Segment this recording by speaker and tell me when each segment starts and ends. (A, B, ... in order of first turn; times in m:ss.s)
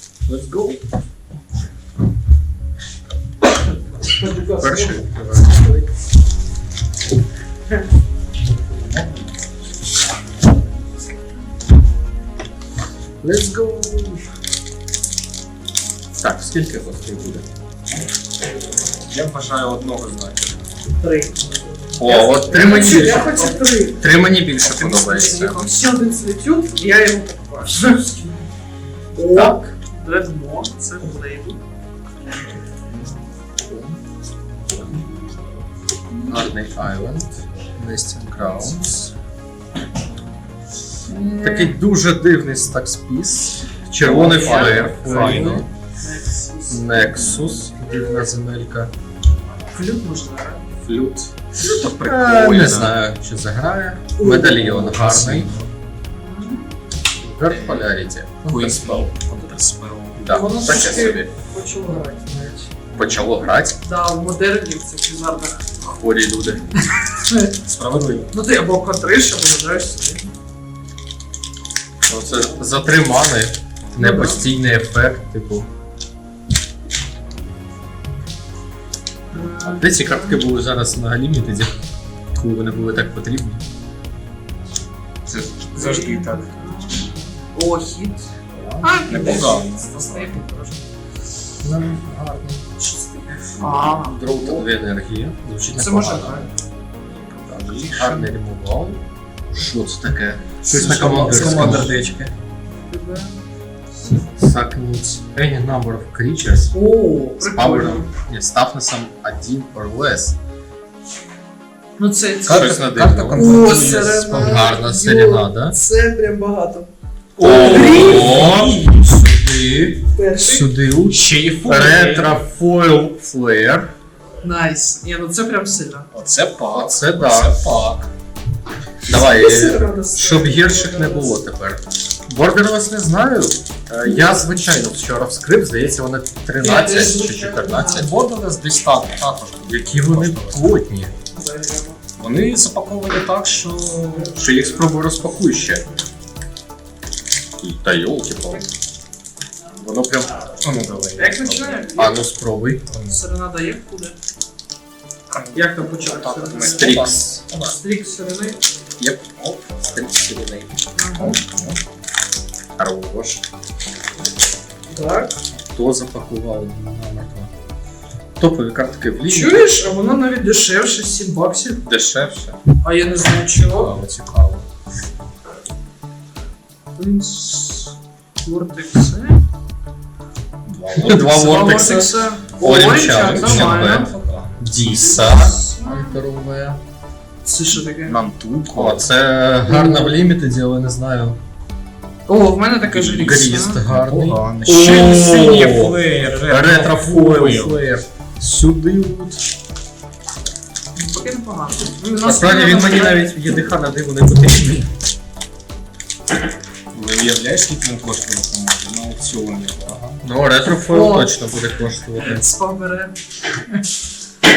0:00.3-0:00.8 A
0:04.0-0:05.0 B
0:04.6-0:05.9 C
0:08.7-0:09.4 A
0:13.2-0:14.2 C
0:16.2-0:17.4 C
0:19.1-0:20.6 A
0:21.0-0:24.0 B
0:22.0-0:25.5 C
0:24.4-0:25.8 A
0:25.1-0:28.4 B
0:29.1-0:31.6 B
0:29.3-0:29.6 C
0:33.6-0:34.0 C
0:36.3-0:39.0 C
0:41.1-0:41.7 B
0:41.4-0:45.7 C
0:44.0-0:45.6 A
0:44.0-0:47.5 B
0:46.7-0:48.9 C
0:49.7-0:50.6 B
0:50.8-0:55.5 C
0:51.6-0:53.0 A
0:54.2-0:54.6 B
0:54.4-0:55.7 A
0:56.1-0:56.7 B
0:57.2-0:59.1 C
0:57.4-1:00.3 A
1:00.2-1:01.3 C
1:00.2-1:02.7 B
1:02.9-1:03.3 A
1:02.9-1:03.8 C
1:03.8-1:05.7 B
1:05.8-1:06.8 C
1:06.8-1:07.5 B
1:07.6-1:08.3 A
1:08.3-1:10.2 B
1:12.0-1:15.7 C
1:12.3-1:12.7 B
1:14.0-1:14.4 B
1:19.3-1:20.5 B
1:19.6-1:21.7 C
1:22.3-1:23.6 C
1:25.2-1:26.8 A
1:25.7-1:28.3 B
1:28.5-1:29.1 C
1:28.8-1:30.8 B
1:29.0-1:30.4 A
1:31.6-1:32.6 C
1:32.8-1:34.7 B
1:33.6-1:36.5 C
1:35.7-1:36.6 B
1:37.2-1:38.3 A
1:37.5-1:39.0 C
1:39.5-1:42.0 C
1:40.6-1:42.3 A
1:40.7-1:41.7 B
1:42.7-1:43.4 B
1:44.4-1:46.7 C
1:46.7-1:48.1 B
1:47.4-1:50.4 C
1:52.0-1:52.7 B
1:52.4-1:54.7 A
1:52.5-1:53.7 C
1:53.3-1:56.9 B
1:54.2-1:55.8 C
1:57.4-1:59.1 A
1:57.4-2:03.9 C
1:57.4-1:58.2 B
2:00.1-2:00.7 B
2:01.1-2:02.4 A
2:04.4-2:06.1 B
2:06.1-2:08.1 A
2:06.7-2:07.7 C
2:09.0-2:18.1 C
2:09.1-2:11.4 B
2:16.6-2:18.0 B
2:17.9-2:20.7 A
2:19.6-2:21.1 C
2:21.3-2:22.0 B
2:22.2-2:24.4 A
2:24.1-2:24.8 B
2:24.3-2:25.8 C
2:27.6-2:28.7 C
2:29.8-2:30.4 C
2:30.6-2:31.9 A
2:31.2-2:32.2 B
2:32.0-2:32.8 C
2:32.9-2:33.2 A
2:33.1-2:34.2 B
2:35.3-2:37.8 A
2:35.5-2:37.0 B
2:36.6-2:37.4 C
2:37.6-2:38.6 B
2:39.0-2:40.8 C
2:41.0-2:41.4 B
2:41.2-2:41.8 A
2:42.8-2:43.4 C
2:44.9-2:45.3 B
2:45.6-2:47.5 C
2:48.4-2:49.7 C
2:49.2-2:51.8 B
2:51.9-2:52.5 C
2:52.7-2:54.0 B
2:53.5-2:54.6 A
2:57.0-2:59.4 B
3:00.6-3:01.8 A
3:01.0-3:06.8 C
3:01.2-3:04.1 B
3:02.6-3:05.2 A
3:05.0-3:06.2 B
3:07.4-3:08.2 B
3:08.0-3:09.1 A
3:08.7-3:11.4 C
3:09.7-3:10.1 B
3:12.3-3:13.8 B
3:12.8-3:17.8 A
3:13.2-3:16.0 C
3:16.5-3:19.4 C
3:21.0-3:23.3 B
3:22.2-3:24.9 C
3:26.9-3:30.2 A
3:30.2-3:32.4 C
3:30.7-3:31.4 B
3:32.1-3:33.8 B